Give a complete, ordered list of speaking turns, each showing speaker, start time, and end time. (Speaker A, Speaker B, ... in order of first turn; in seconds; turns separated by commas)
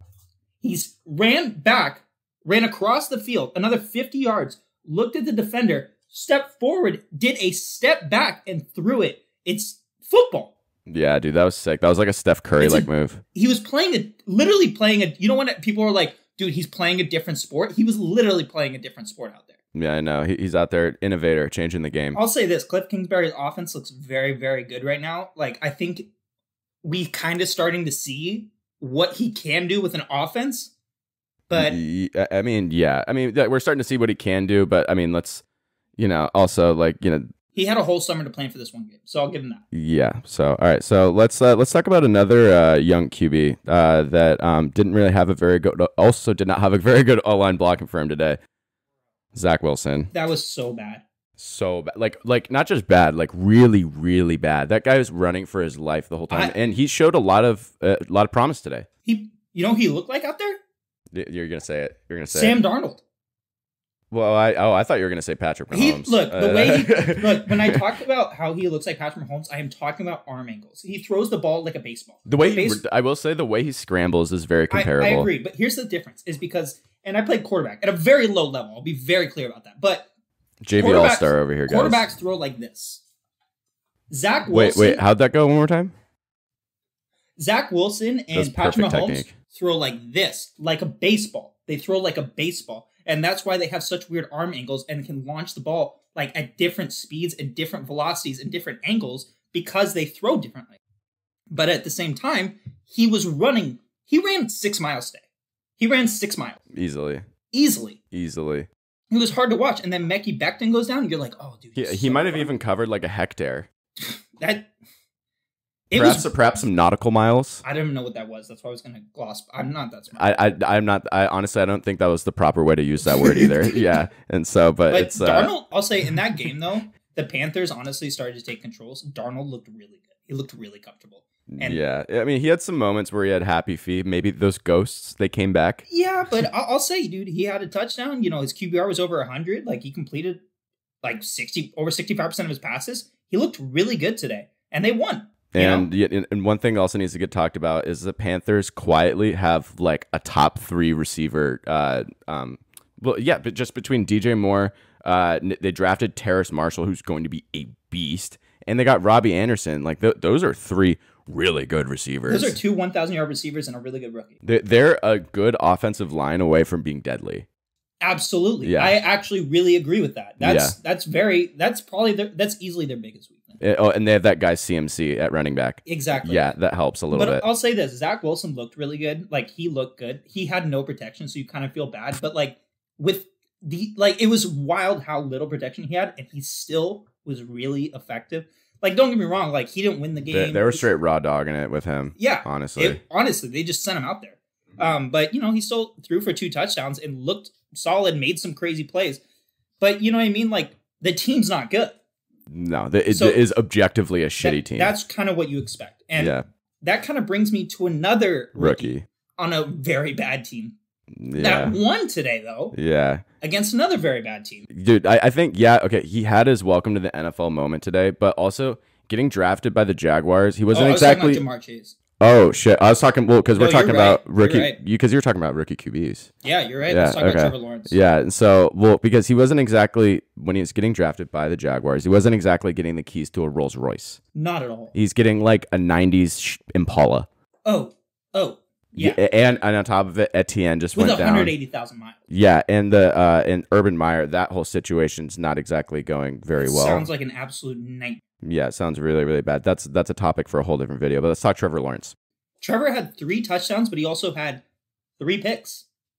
Speaker A: 0.6-10.5, Speaker B: 10.9-13.2, Speaker A: 12.6-19.6, Speaker B: 19.7-22.2, Speaker A: 22.1-26.1, Speaker A: 26.8-30.7, Speaker A: 31.5-31.8, Speaker B: 31.5-35.4, Speaker B: 36.0-37.3, Speaker A: 37.5-39.6, Speaker B: 39.7-48.4, Speaker B: 49.4-50.1, Speaker A: 50.1-51.0, Speaker B: 51.4-58.9, Speaker A: 56.3-56.6, Speaker A: 59.0-60.6, Speaker B: 61.1-62.6, Speaker A: 62.3-63.0, Speaker B: 64.1-67.8, Speaker A: 65.7-72.8, Speaker B: 72.3-75.3, Speaker A: 74.7-80.1, Speaker B: 80.6-82.1, Speaker A: 80.7-83.0, Speaker A: 84.1-85.0, Speaker B: 84.5-85.9, Speaker A: 87.4-100.8, Speaker B: 88.3-89.3, Speaker A: 101.5-105.2, Speaker A: 105.8-106.6, Speaker B: 106.7-107.2, Speaker A: 107.5-108.0, Speaker B: 108.1-108.7, Speaker A: 109.1-112.5, Speaker B: 111.8-113.7, Speaker A: 114.0-114.7, Speaker A: 115.9-116.7, Speaker B: 115.9-117.6, Speaker A: 117.6-120.3, Speaker B: 120.2-125.5, Speaker A: 123.1-124.0, Speaker A: 124.9-131.8, Speaker B: 131.5-135.9, Speaker A: 135.9-140.4, Speaker A: 141.0-145.9, Speaker B: 145.5-162.6, Speaker A: 162.3-164.4, Speaker B: 164.4-167.5, Speaker A: 168.0-173.6, Speaker B: 168.6-169.0, Speaker B: 170.4-170.8, Speaker B: 173.6-177.4, Speaker A: 175.8-176.6, Speaker A: 177.1-190.9, Speaker B: 190.3-193.0, Speaker A: 192.2-199.2, Speaker A: 199.8-202.0, Speaker B: 202.5-204.9, Speaker A: 203.1-203.4, Speaker A: 204.4-210.8, Speaker B: 206.2-206.4, Speaker B: 208.6-209.1, Speaker B: 211.2-211.8, Speaker A: 211.3-212.8, Speaker B: 212.7-213.2, Speaker A: 213.4-214.7, Speaker B: 214.7-221.4, Speaker A: 220.7-222.0, Speaker B: 222.2-226.3, Speaker A: 223.6-224.8, Speaker A: 226.4-228.0, Speaker B: 226.9-234.2, Speaker A: 234.3-234.9, Speaker B: 234.9-237.3, Speaker A: 237.7-239.2, Speaker B: 239.0-241.5, Speaker A: 240.9-242.2, Speaker B: 242.3-247.1, Speaker A: 246.6-248.2, Speaker B: 248.4-252.2, Speaker A: 252.6-254.6, Speaker A: 255.2-255.9